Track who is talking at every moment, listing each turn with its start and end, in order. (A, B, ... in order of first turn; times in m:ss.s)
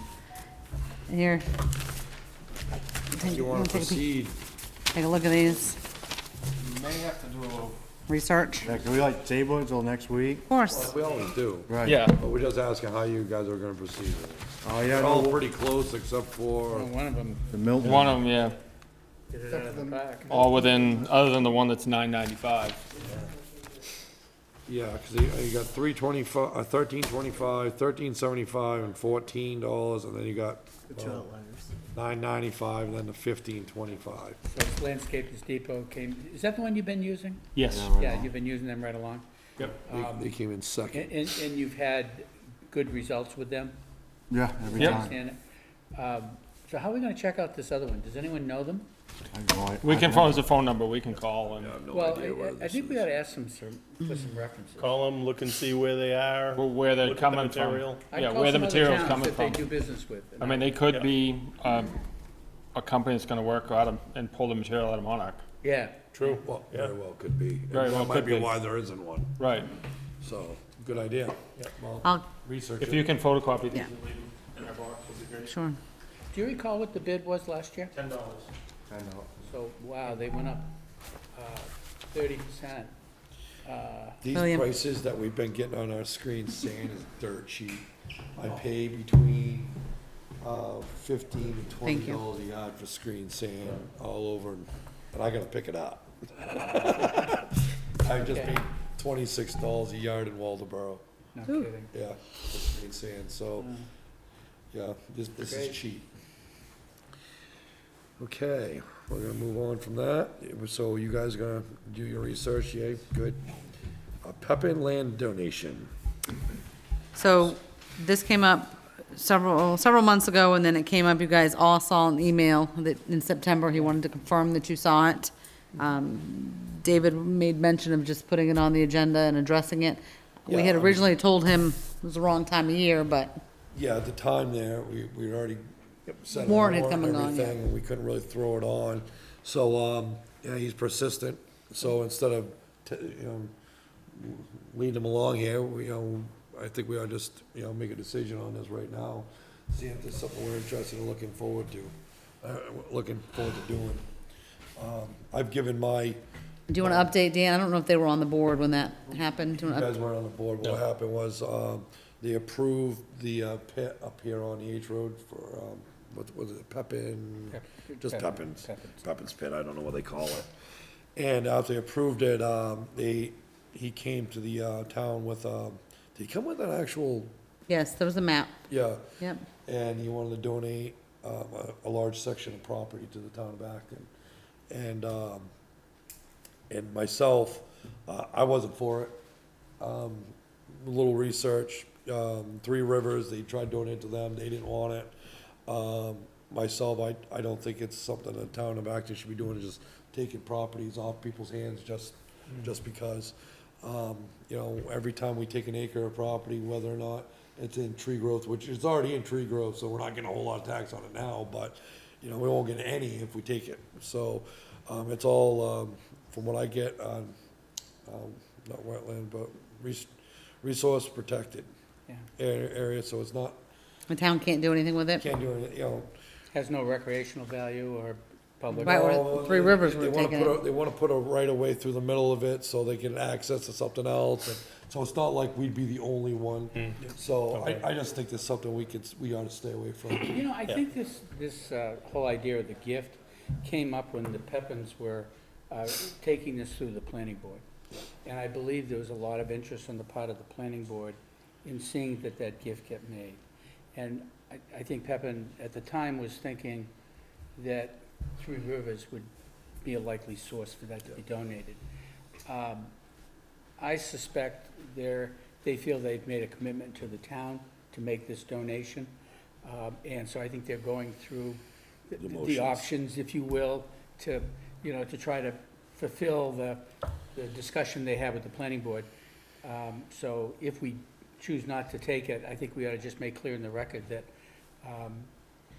0:01.1-0:01.4 A
0:03.1-0:04.0 A
0:03.1-0:04.4 B
0:04.9-0:05.8 A
0:06.6-0:07.7 C
0:08.1-0:08.7 A
0:08.6-0:10.4 D
0:10.5-0:10.9 A
0:10.7-0:16.9 B
0:11.7-0:12.0 D
0:11.8-0:12.2 C
0:14.6-0:15.4 D
0:16.7-0:17.5 E
0:17.5-0:18.2 D
0:17.8-0:18.6 C
0:19.3-0:20.4 E
0:20.3-0:22.8 C
0:24.7-0:31.3 B
0:31.9-0:34.4 B
0:34.5-0:40.3 E
0:37.5-0:37.9 C
0:37.7-0:38.3 D
0:39.9-0:41.3 B
0:40.9-0:43.8 E
0:44.3-0:45.1 D
0:44.7-0:45.4 E
0:44.8-0:45.1 C
0:45.9-0:48.9 E
0:49.3-0:50.4 D
0:49.8-0:51.7 C
0:51.5-0:53.1 B
0:51.9-0:55.1 E
0:54.8-0:58.0 F
0:56.6-0:59.6 C
0:58.1-1:00.8 E
1:00.4-1:02.0 C
1:02.7-1:05.4 C
1:05.6-1:06.4 E
1:06.1-1:06.9 F
1:06.3-1:09.4 B
1:07.7-1:08.5 C
1:09.4-1:09.7 C
1:10.2-1:13.1 B
1:12.8-1:15.5 C
1:15.4-1:15.8 A
1:16.3-1:17.9 E
1:17.9-1:18.5 C
1:18.9-1:19.3 D
1:19.4-1:20.7 E
1:21.3-1:22.9 E
1:23.6-1:24.2 E
1:24.2-1:29.7 B
1:24.3-1:24.7 A
1:30.4-1:41.0 B
1:31.8-1:32.2 A
1:38.2-1:38.6 E
1:41.3-1:41.9 E
1:41.9-1:43.7 B
1:44.7-1:46.1 B
1:45.4-1:45.7 E
1:48.2-1:53.4 B
1:54.2-1:55.9 B
1:57.1-2:13.4 A
2:10.5-2:11.1 B
2:13.7-2:23.5 B
2:16.4-2:17.6 A
2:24.1-2:34.0 B
2:34.8-2:36.2 B
2:36.7-2:39.9 A
2:36.8-2:37.1 B
2:39.6-2:50.5 B
2:47.5-2:49.0 E
2:51.2-2:57.3 B
2:57.7-2:58.6 A
2:58.7-2:59.1 B
2:59.2-2:59.4 A
2:59.6-3:04.1 B
3:04.7-3:05.5 B
3:06.7-3:09.2 B
3:09.8-3:15.1 B
3:15.7-3:37.3 B
3:38.0-3:41.7 B
3:42.4-3:43.6 B
3:44.1-3:45.2 A
3:45.2-3:46.1 B
3:46.5-3:49.2 E
3:48.7-4:00.4 B
3:48.8-3:50.6 A
4:00.3-4:07.6 E
4:08.2-4:13.4 E
4:13.9-4:16.9 E
4:17.6-4:19.3 E
4:19.8-4:21.8 E
4:22.4-4:22.9 E
4:23.8-4:29.1 E
4:29.6-4:39.1 E
4:32.2-4:32.9 B
4:39.6-4:44.3 E
4:44.8-4:45.3 E